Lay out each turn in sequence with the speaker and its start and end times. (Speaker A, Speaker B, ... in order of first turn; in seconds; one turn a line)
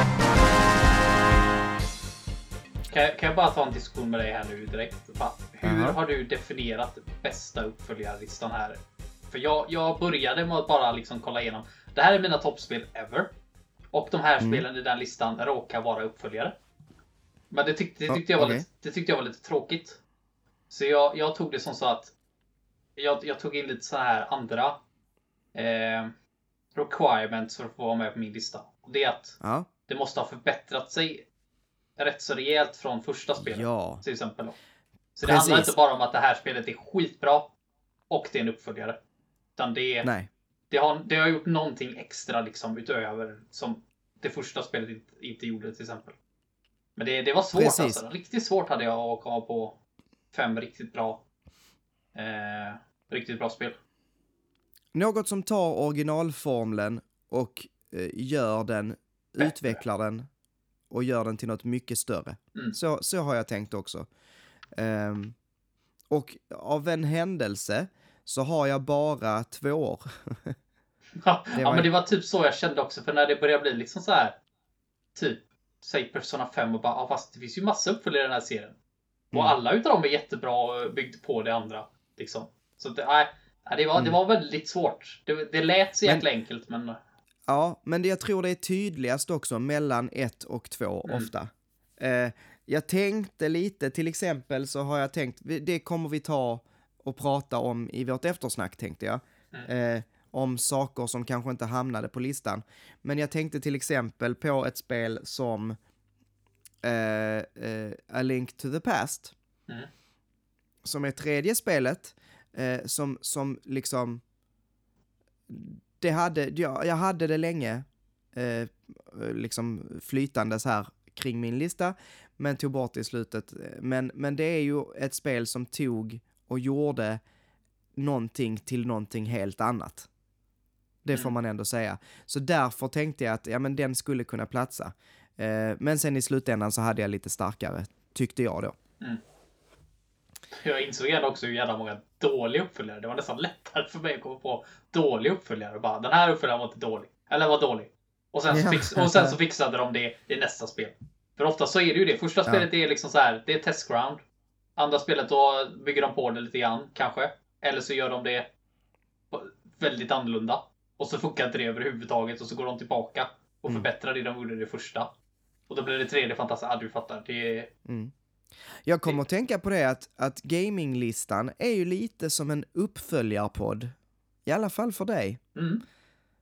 Speaker A: 2.9-8.8
Speaker B: 5.6-5.9
Speaker A: 9.3-13.3
Speaker A: 13.9-16.6
Speaker A: 17.5-20.0
Speaker B: 18.1-18.6
Speaker A: 20.7-22.1
Speaker A: 23.0-24.8
Speaker A: 25.5-26.1
Speaker A: 26.7-31.2
Speaker B: 29.4-29.7
Speaker A: 32.0-34.5
Speaker B: 33.4-34.0
Speaker A: 35.1-37.5
Speaker B: 35.2-35.7
Speaker A: 38.1-39.0
Speaker A: 39.5-40.1
Speaker B: 40.0-40.3
Speaker A: 40.7-46.1
Speaker A: 47.0-49.8
Speaker B: 47.5-48.0
Speaker A: 50.3-51.2
Speaker A: 52.1-53.8
Speaker B: 54.9-60.3
Speaker A: 59.4-59.8
Speaker B: 60.9-64.1
Speaker B: 64.8-65.3
Speaker B: 66.1-70.5
Speaker A: 71.2-74.3
Speaker B: 71.5-71.9
Speaker A: 75.1-78.8
Speaker A: 79.3-87.0
Speaker B: 87.5-105.8
Speaker B: 106.8-109.3
Speaker B: 110.8-114.2
Speaker B: 115.5-127.2
Speaker B: 128.0-130.1
Speaker B: 131.0-138.7
Speaker A: 140.5-154.2
Speaker B: 148.5-149.4
Speaker A: 154.8-158.5
Speaker A: 159.3-165.1
Speaker A: 165.7-167.7
Speaker B: 167.8-168.1
Speaker B: 168.7-173.9
Speaker B: 174.4-175.4
Speaker A: 175.5-175.8